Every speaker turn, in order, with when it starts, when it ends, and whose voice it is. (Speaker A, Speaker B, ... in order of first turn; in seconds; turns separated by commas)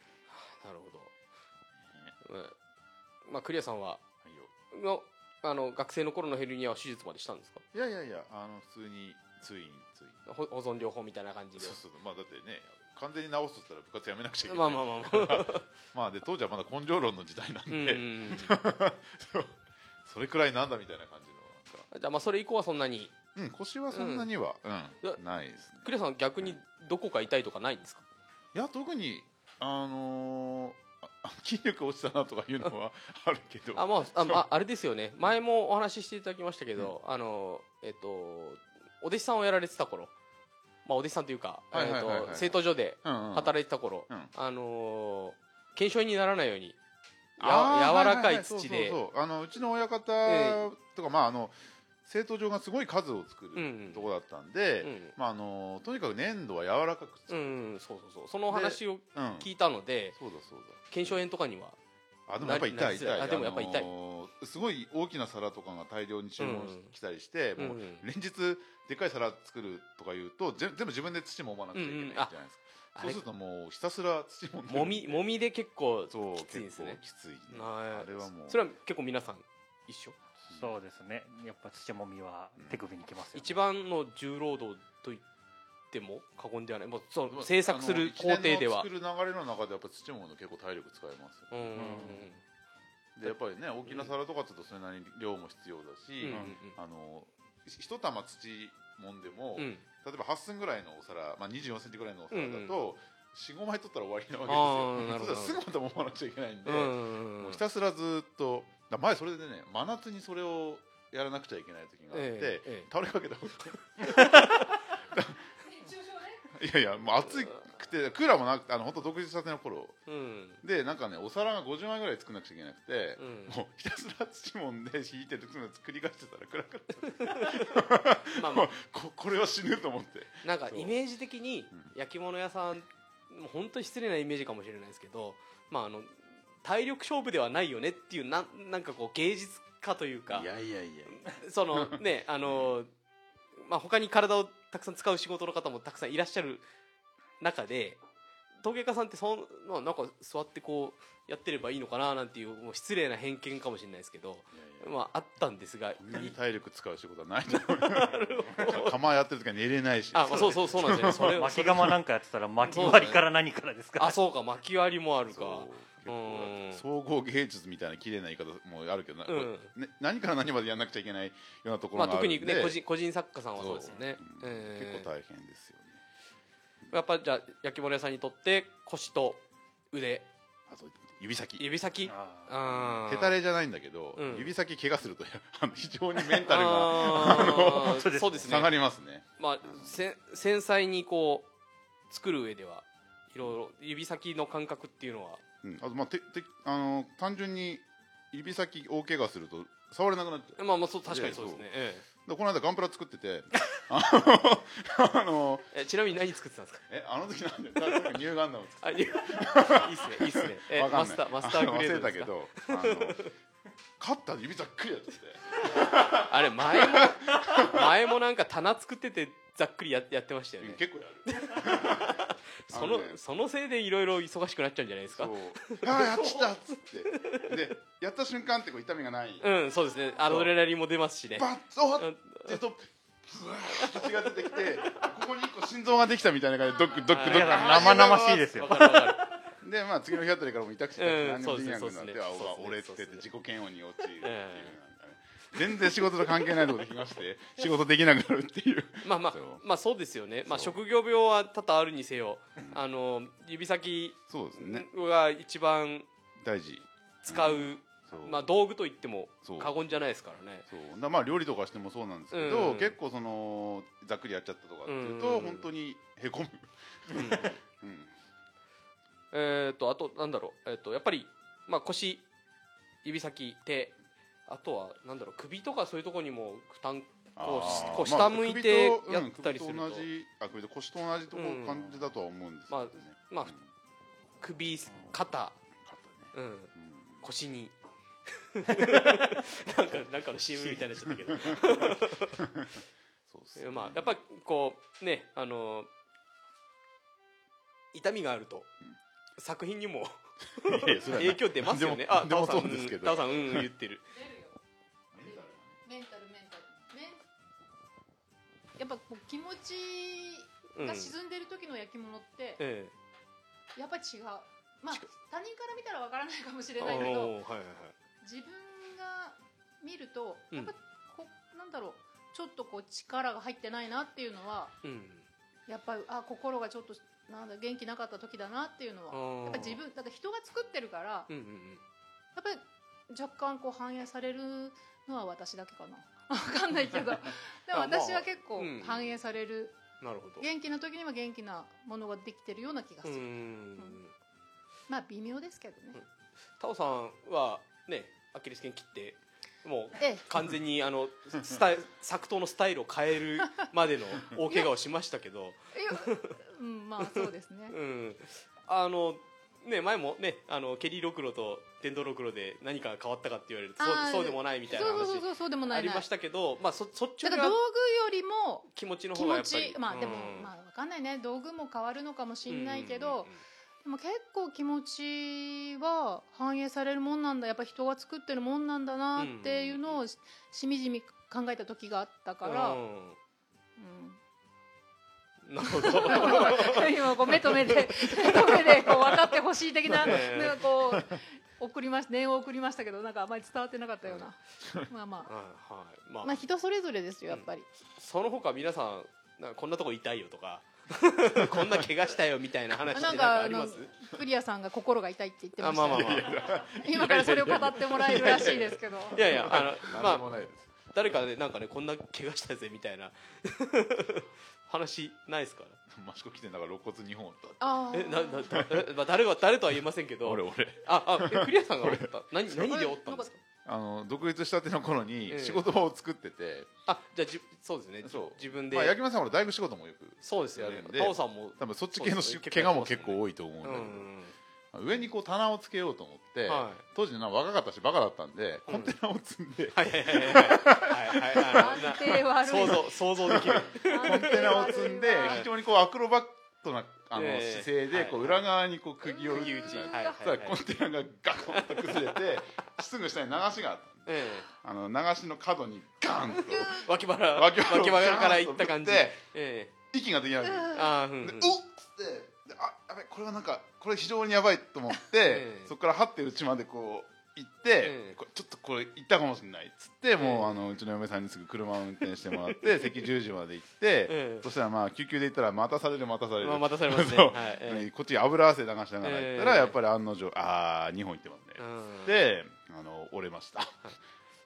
Speaker A: 0.3-1.1, Speaker B: 1.9-2.1, Speaker A: 2.2-2.5, Speaker A: 3.3-4.0, Speaker B: 4.2-4.5, Speaker A: 4.7-7.6, Speaker B: 7.7-10.2, Speaker A: 10.3-11.8, Speaker B: 11.6-21.9, Speaker A: 14.5-15.6, Speaker A: 17.7-18.6, Speaker A: 21.9-23.1, Speaker B: 23.3-25.9, Speaker A: 23.9-24.3, Speaker A: 25.8-28.0, Speaker B: 28.5-34.4, Speaker A: 33.7-40.1, Speaker A: 40.8-46.8, Speaker B: 41.7-43.5, Speaker A: 47.4-49.0, Speaker B: 47.4-57.6, Speaker A: 50.2-50.6, Speaker A: 53.5-54.1, Speaker A: 54.8-55.1, Speaker A: 57.3-60.1, Speaker B: 58.5-59.5, Speaker B: 60.2-60.9, Speaker A: 60.9-61.8, Speaker B: 62.3-75.2, Speaker A: 62.4-63.9, Speaker A: 66.4-66.9, Speaker A: 67.6-68.0, Speaker A: 71.7-72.3, Speaker A: 72.9-73.2, Speaker A: 74.7-80.2, Speaker B: 76.1-78.6, Speaker C: 80.5-83.6, Speaker B: 82.6-82.8, Speaker A: 83.3-85.2, Speaker A: 85.9-88.9, Speaker B: 87.3-92.2, Speaker A: 91.5-92.4, Speaker C: 91.8-92.2, Speaker B: 93.2-115.5, Speaker A: 96.2-96.8, Speaker A: 99.6-99.8, Speaker A: 102.3-102.7, Speaker A: 104.5-105.6, Speaker A: 106.7-107.6, Speaker A: 112.1-112.9, Speaker A: 114.0-114.6, Speaker D: 115.6-116.4, Speaker B: 116.5-120.0, Speaker A: 117.3-117.6, Speaker A: 120.1-120.6, Speaker B: 120.6-130.9, Speaker A: 123.2-123.6, Speaker A: 128.4-128.7, Speaker A: 130.4-140.5, Speaker B: 140.3-142.7, Speaker A: 141.1-142.9, Speaker A: 143.6-146.6, Speaker A: 147.4-148.0, Speaker A: 148.6-156.3, Speaker B: 154.5-155.0, Speaker B: 156.0-161.9, Speaker A: 157.5-158.9, Speaker A: 160.1-161.8, Speaker C: 160.3-164.2, Speaker A: 162.6-163.2, Speaker A: 164.0-166.8, Speaker B: 165.3-172.8, Speaker A: 169.3-169.7, Speaker A: 171.9-175.1, Speaker B: 173.5-176.0, Speaker A: 176.9-179.4, Speaker A: 179.9-180.3, Speaker B: 180.7-181.6, Speaker A: 181.6-183.3, Speaker C: 182.1-182.5, Speaker B: 182.7-190.0, Speaker A: 184.2-184.5, Speaker A: 186.4-188.7, Speaker C: 187.0-188.6, Speaker A: 189.4-191.5, Speaker A: 192.1-195.4, Speaker B: 195.6-205.7, Speaker A: 200.6-202.0, Speaker A: 205.7-206.8, Speaker B: 206.9-213.3, Speaker A: 208.8-213.3, Speaker B: 214.0-217.9, Speaker A: 216.3-226.5, Speaker B: 220.6-223.2, Speaker B: 225.1-229.5, Speaker A: 227.1-227.5, Speaker A: 229.4-232.6, Speaker D: 229.8-230.2, Speaker B: 230.3-230.5, Speaker B: 231.3-238.8, Speaker A: 233.8-235.1, Speaker D: 236.7-237.0, Speaker A: 237.1-239.4, Speaker C: 237.2-239.2, Speaker B: 239.6-249.6, Speaker A: 241.0-243.2, Speaker A: 244.2-244.7, Speaker A: 245.7-246.6, Speaker A: 249.0-256.1, Speaker B: 250.4-250.8, Speaker B: 254.3-254.9, Speaker B: 256.4-258.5, Speaker A: 257.2-260.6, Speaker B: 259.4-259.9, Speaker B: 260.6-268.1, Speaker A: 262.3-262.9, Speaker A: 264.9-265.6, Speaker A: 267.1-267.6, Speaker A: 269.3-272.3, Speaker A: 273.0-273.9, Speaker A: 274.5-280.1, Speaker B: 277.4-283.7, Speaker A: 281.3-282.0, Speaker A: 282.7-283.5, Speaker A: 284.4-285.6, Speaker B: 285.8-287.2, Speaker A: 286.3-287.7, Speaker A: 288.3-292.4, Speaker B: 291.3-291.9, Speaker B: 292.4-292.7, Speaker B: 293.3-294.1, Speaker A: 293.6-295.9, Speaker A: 297.9-298.7, Speaker A: 299.4-304.1, Speaker B: 300.6-303.7, Speaker D: 304.1-304.5, Speaker B: 305.1-305.8, Speaker D: 305.2-307.2, Speaker D: 308.8-312.6, Speaker A: 310.7-311.1, Speaker A: 312.6-312.9, Speaker D: 313.8-317.4, Speaker A: 316.8-317.9, Speaker D: 318.2-324.7, Speaker A: 324.8-325.2, Speaker D: 325.7-331.3, Speaker A: 329.1-329.8, Speaker A: 331.3-331.8, Speaker D: 332.3-339.8, Speaker A: 337.7-339.2, Speaker A: 340.0-340.4, Speaker D: 340.4-344.0, Speaker A: 343.0-344.1, Speaker D: 344.9-346.0, Speaker A: 346.6-356.3, Speaker D: 350.0-350.2, Speaker D: 355.7-357.8, Speaker A: 357.0-367.6, Speaker D: 363.8-366.1, Speaker D: 367.2-382.8, Speaker A: 368.7-370.5, Speaker A: 372.5-373.4, Speaker A: 379.1-379.9, Speaker A: 382.4-383.2, Speaker D: 383.8-384.2, Speaker A: 385.4-389.3, Speaker D: 385.8-395.3, Speaker A: 389.9-390.6, Speaker A: 395.2-396.3, Speaker D: 396.2-397.7, Speaker A: 397.3-403.9, Speaker B: 401.3-401.8, Speaker D: 402.9-409.6, Speaker A: 405.6-415.8, Speaker B: 405.9-410.9, Speaker B: 415.9-417.9, Speaker D: 417.6-418.6, Speaker A: 417.9-423.4, Speaker B: 418.5-418.9, Speaker B: 420.2-422.7, Speaker D: 422.7-423.3, Speaker B: 423.6-426.7, Speaker A: 425.3-425.6, Speaker A: 426.9-429.0, Speaker B: 428.0-434.1, Speaker A: 430.2-434.3, Speaker B: 434.7-459.2, Speaker A: 436.5-436.8, Speaker A: 438.6-438.9, Speaker A: 439.7-444.6, Speaker D: 441.4-443.0, Speaker D: 443.9-445.4, Speaker A: 445.2-445.5, Speaker A: 447.1-448.4, Speaker D: 449.0-450.2, Speaker A: 449.3-450.6, Speaker A: 451.5-452.2, Speaker A: 454.1-454.5, Speaker D: 456.4-456.9, Speaker A: 456.6-459.7, Speaker B: 459.8-483.8, Speaker A: 460.7-461.6, Speaker A: 465.2-465.7, Speaker A: 467.8-468.2, Speaker A: 470.2-470.5, Speaker A: 474.1-474.5, Speaker A: 476.4-477.9, Speaker A: 479.0-479.8, Speaker A: 481.6-482.1